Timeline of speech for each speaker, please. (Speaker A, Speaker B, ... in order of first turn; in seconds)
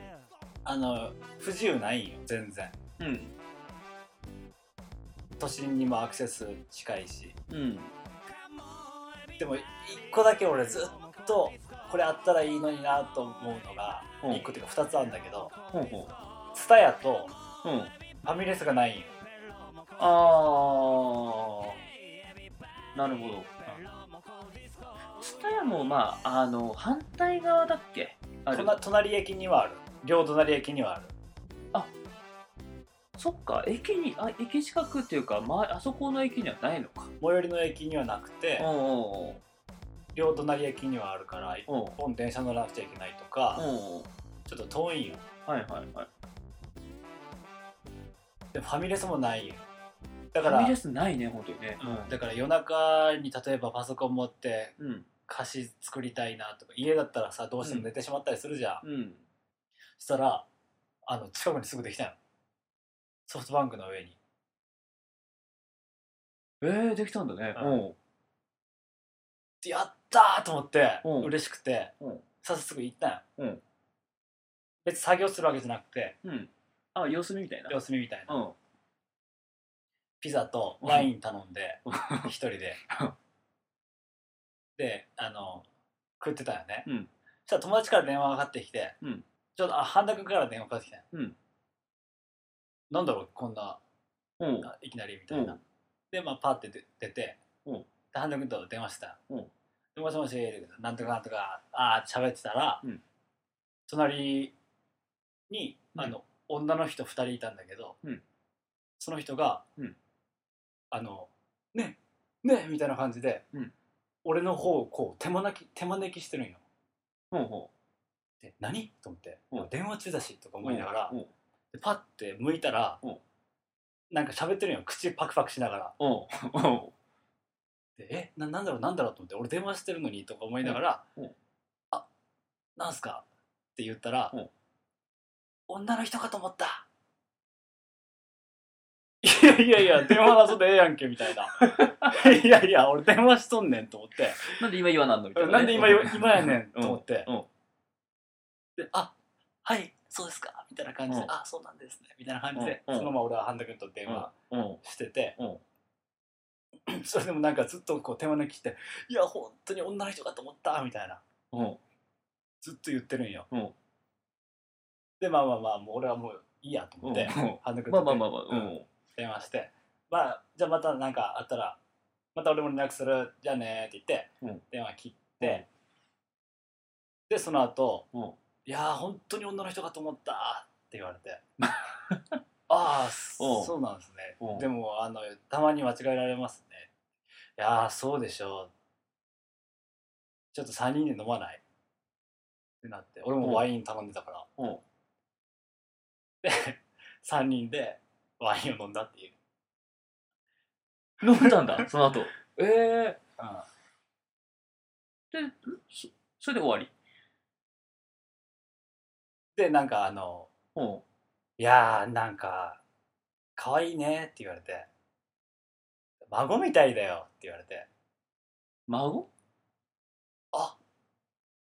Speaker A: 0.7-2.8, 5.4-7.4, 9.4-15.5, 16.5-17.3, 18.2-19.1, 28.5-31.1, 37.2-38.7, 40.1-43.6, 44.5-45.2, 48.5-49.6, 50.3-50.8, 51.8-54.8, 55.3-58.8, 60.0-60.5, 61.0-62.2, 63.3-64.2, 67.5-67.8, 69.6-73.2, 74.8-76.2, 77.7-78.4, 80.2-82.8, 84.8-85.7, 86.2-86.9, 87.5-89.0, 89.5-91.0, 92.9-93.8, 94.6-95.6, 96.1-97.4, 98.1-99.2, 100.0-102.8, 103.9-104.5, 105.5-108.0, 109.0-109.7, 110.9-113.5, 114.2-116.6, 118.4-121.1, 121.7-123.0, 124.1-126.0, 128.0-131.0, 132.8-133.2, 133.8-134.3, 135.7-136.8, 139.2-144.6, 145.4-147.3, 148.8-155.4, 156.8-161.2, 162.6-163.5, 165.2-171.8, 172.3-175.6, 177.3-178.1, 178.7-181.4, 182.7-186.9, 187.6-188.7, 190.5-191.6, 192.8-194.5, 196.4-199.4, 203.4-203.7, 209.6-210.5, 211.6-212.8, 213.6-214.9, 216.2-217.9
Speaker B: 3.0-3.3, 7.5-7.9, 14.2-14.5, 15.7-16.2, 17.6-17.9, 20.0-21.8, 22.9-23.5, 25.2-28.8, 33.2-37.1, 38.6-39.4, 41.7-42.0, 43.6-44.1, 45.5-46.1, 50.4-52.2, 54.8-55.1, 58.8-59.3, 66.6-68.0, 71.0-71.3, 73.4-73.6, 76.2-78.6, 80.8-81.1, 81.9-82.3, 82.9-83.2, 89.0-89.3, 94.4-94.7, 95.3-95.6, 117.3-117.7, 120.6-121.3, 126.0-126.9, 130.6-131.3, 141.6-142.2, 144.6-147.5, 152.6-153.2, 154.1-154.8, 155.4-155.6, 161.5-161.8, 167.0-168.9, 175.4-175.7, 181.6-182.4, 183.4-183.7, 184.4-184.7, 193.4-193.7, 194.6-194.8, 201.2-203.2, 205.3-206.9, 210.8-211.0, 218.9-219.3